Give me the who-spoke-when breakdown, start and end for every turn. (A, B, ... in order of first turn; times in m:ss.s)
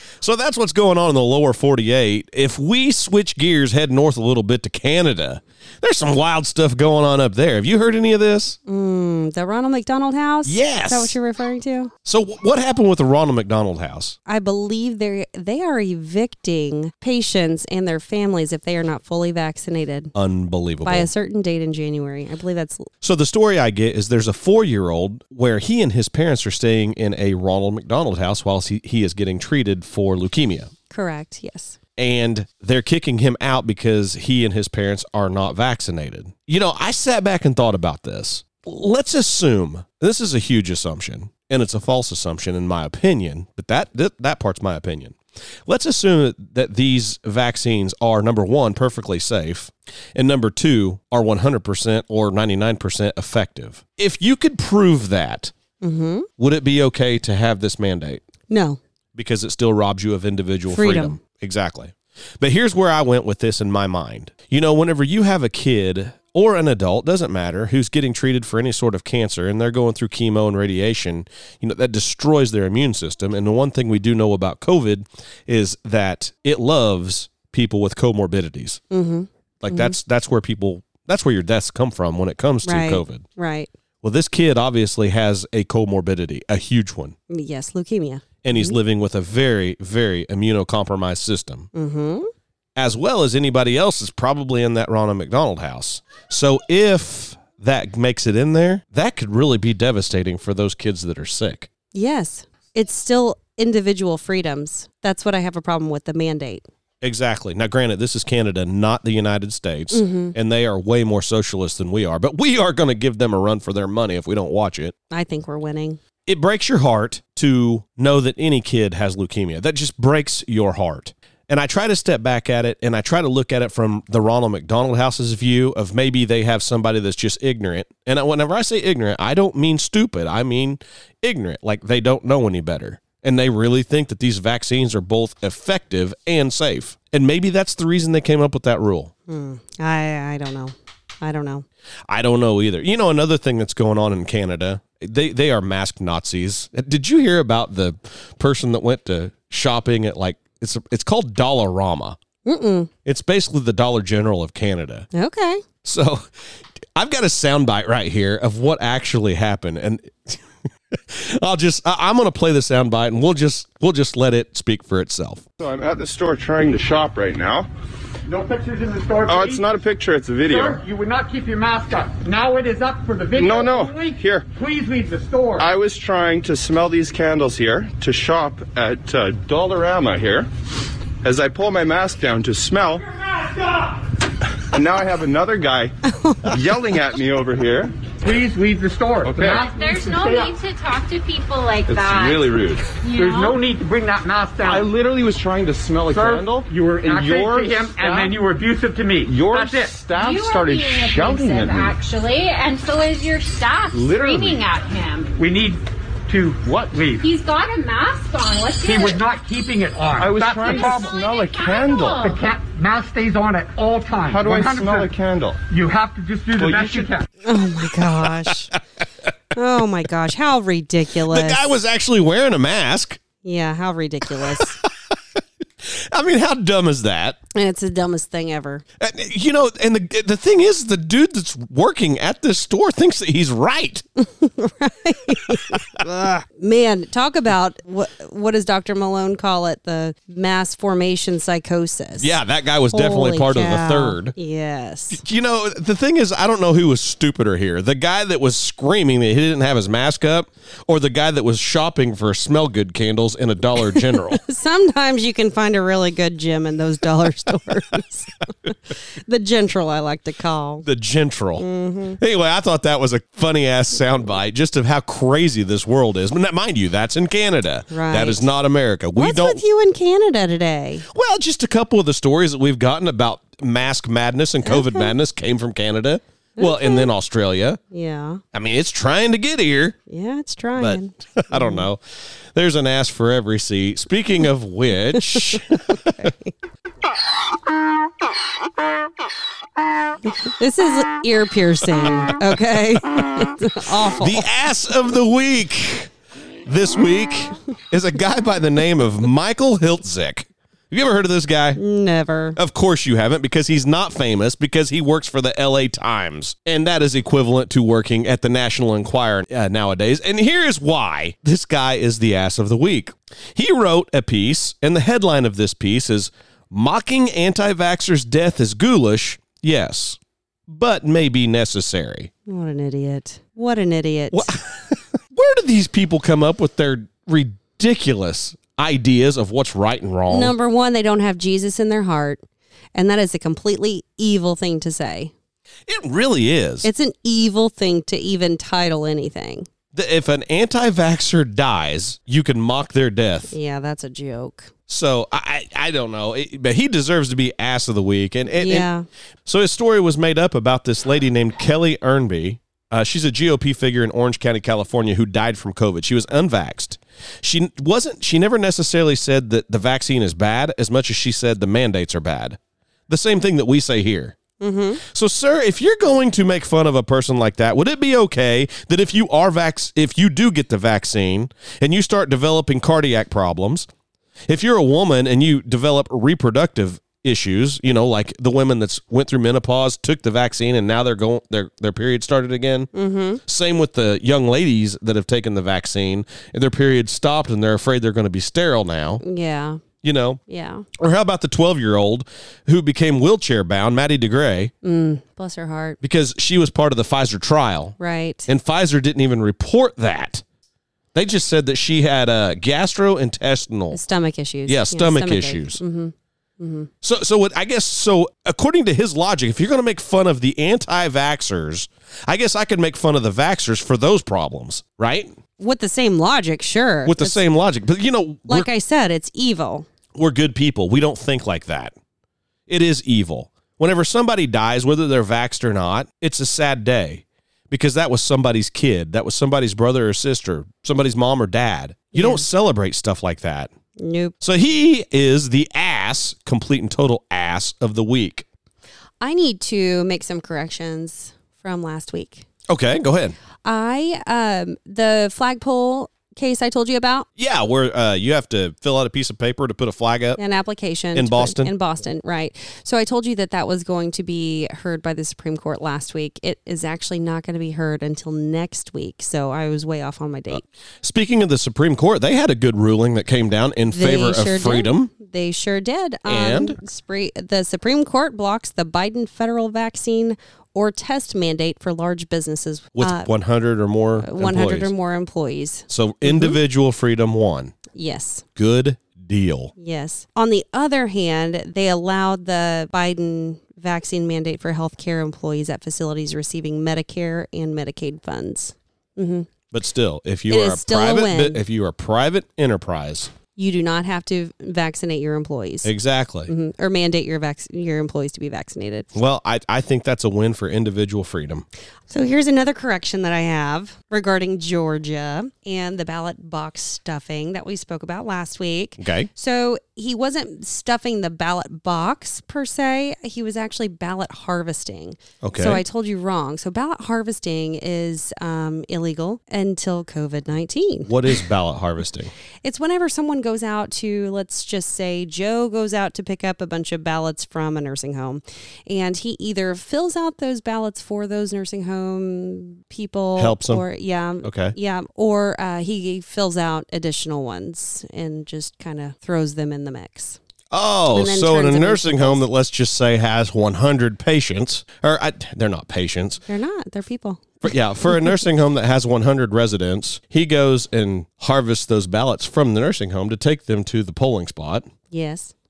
0:00.2-0:08.6 A
0:08.7-0:11.9 B
0:10.4-0:11.2 A
0:12.0-0:14.2 A
0:14.3-0:20.1 B
0:20.2-0:21.1 A
0:20.8-0:22.9 B
0:23.0-0:30.7 A
0:30.9-0:31.8 B
0:32.0-0:55.5 A
0:55.8-0:56.3 B
0:56.4-0:58.2 A
0:58.5-0:58.8 B
0:59.1-1:18.8 A
1:00.7-1:01.2 B
1:18.9-1:20.0 B
1:19.6-1:23.2 A
1:22.6-1:23.7 B
1:24.0-1:27.2 A
1:27.3-1:28.8 B
1:28.4-1:31.7 A
1:31.7-1:32.3 B
1:32.8-1:41.7 A
1:41.9-1:46.7 B
1:47.0-1:54.9 A
1:49.9-1:50.4 B
1:55.1-1:56.0 B
1:56.3-2:19.1 A
2:19.3-2:21.6 B
2:22.1-2:32.2 A
2:32.4-2:32.9 B
2:33.0-2:35.1 A
2:35.1-2:35.6 B
2:35.8-2:36.3 A
2:37.0-2:45.4 A
2:45.6-2:47.7 C
2:48.3-2:49.6 D
2:49.3-2:50.8 C
2:50.4-2:55.7 D
2:53.4-2:54.5 C
2:55.6-3:00.5 C
3:01.2-3:03.1 C
3:04.6-3:05.9 C
3:06.1-3:06.6 B
3:06.4-3:08.0 C
3:08.2-3:10.5 D
3:09.2-3:09.6 C
3:09.4-3:13.6 E
3:11.9-3:12.9 C
3:13.1-3:14.9 D
3:14.6-3:18.4 C
3:16.1-3:20.1 D
3:19.2-3:22.0 C
3:20.1-3:25.4 E
3:23.9-3:24.6 C
3:25.4-3:27.3 D
3:26.6-3:27.0 C
3:27.2-3:29.2 E
3:28.8-3:31.2 D
3:30.2-3:32.3 C
3:30.6-3:32.5 E
3:32.2-3:35.1 D
3:34.3-3:35.6 C
3:35.7-3:37.3 D
3:36.6-3:37.1 C
3:37.4-3:38.7 B
3:38.0-3:38.8 A
3:39.5-3:41.8 B
3:41.1-3:43.2 A
3:43.4-3:44.8 B
3:44.4-3:47.4 A
3:47.5-3:48.8 B
3:49.0-3:54.0 A
3:54.2-4:02.4 B
3:55.5-3:56.0 A
4:02.2-4:04.4 A
4:02.9-4:05.2 B
4:05.1-4:14.4 A
4:13.9-4:20.9 B
4:20.8-4:21.6 A
4:21.6-4:22.2 B
4:22.2-4:29.6 A
4:27.9-4:28.5 B
4:29.2-4:31.0 B
4:31.1-4:37.8 A
4:34.6-4:35.1 B
4:36.6-4:37.1 B
4:37.9-4:38.4 B
4:38.5-4:40.0 A
4:40.1-4:41.9 B
4:40.8-4:42.0 A
4:42.5-4:46.3 A
4:45.2-4:46.5 B
4:50.3-4:54.5 B
4:54.1-4:56.1 A
4:56.7-5:01.8 A
5:01.8-5:02.6 B
5:02.6-5:22.3 A
5:22.5-5:24.5 B
5:24.3-5:30.6 A
5:30.3-5:32.4 B
5:33.0-5:35.3 B
5:35.9-5:36.9 A
5:36.8-5:39.7 B
5:39.9-5:43.5 A
5:43.5-5:44.7 B
5:44.9-5:48.9 A
5:48.6-5:49.1 B
5:49.5-6:04.4 A
6:04.6-6:05.0 B
6:05.0-6:13.9 A
6:14.5-6:22.9 A
6:22.9-6:23.4 B
6:23.5-6:29.2 A
6:29.2-6:29.8 B
6:30.0-6:30.4 A
6:30.5-6:30.9 B
6:31.0-6:34.7 A
6:34.8-6:36.0 B
6:36.0-6:38.0 A
6:38.0-6:38.5 B
6:38.5-6:40.4 A
6:41.1-6:44.0 A
6:43.9-6:46.9 B
6:44.7-6:45.8 A
6:47.0-6:55.3 A
6:55.6-6:57.4 B
6:57.0-6:58.7 A
6:58.5-6:59.9 B
7:00.2-7:01.9 A
7:02.7-7:13.7 A
7:12.1-7:12.4 B
7:14.0-7:14.3 B
7:14.4-7:18.5 A
7:19.2-7:22.5 B
7:22.7-7:23.4 A
7:23.6-7:27.3 B
7:27.4-7:30.4 A
7:30.4-7:40.6 B
7:31.2-7:31.7 A
7:40.5-7:45.1 A
7:43.9-7:53.3 B
7:46.3-7:46.8 A
7:53.0-7:54.9 A
7:54.2-7:56.6 B
7:55.9-7:57.8 A
7:57.9-7:58.5 B
7:58.6-7:59.7 A
7:59.8-8:09.5 B
8:09.7-8:13.3 A
8:10.5-8:11.6 B
8:13.6-8:15.9 B
8:15.8-8:16.5 A
8:16.5-8:19.1 B
8:19.1-8:21.7 A
8:22.1-8:41.1 B
8:29.0-8:29.3 A
8:35.4-8:35.8 A
8:41.1-8:42.3 A
8:42.6-9:00.4 B
8:53.4-8:53.8 A
8:54.4-8:54.8 A
9:00.7-9:06.4 A
9:01.1-9:02.4 B
9:06.5-9:08.3 B
9:07.6-9:14.9 A
9:15.1-9:15.5 B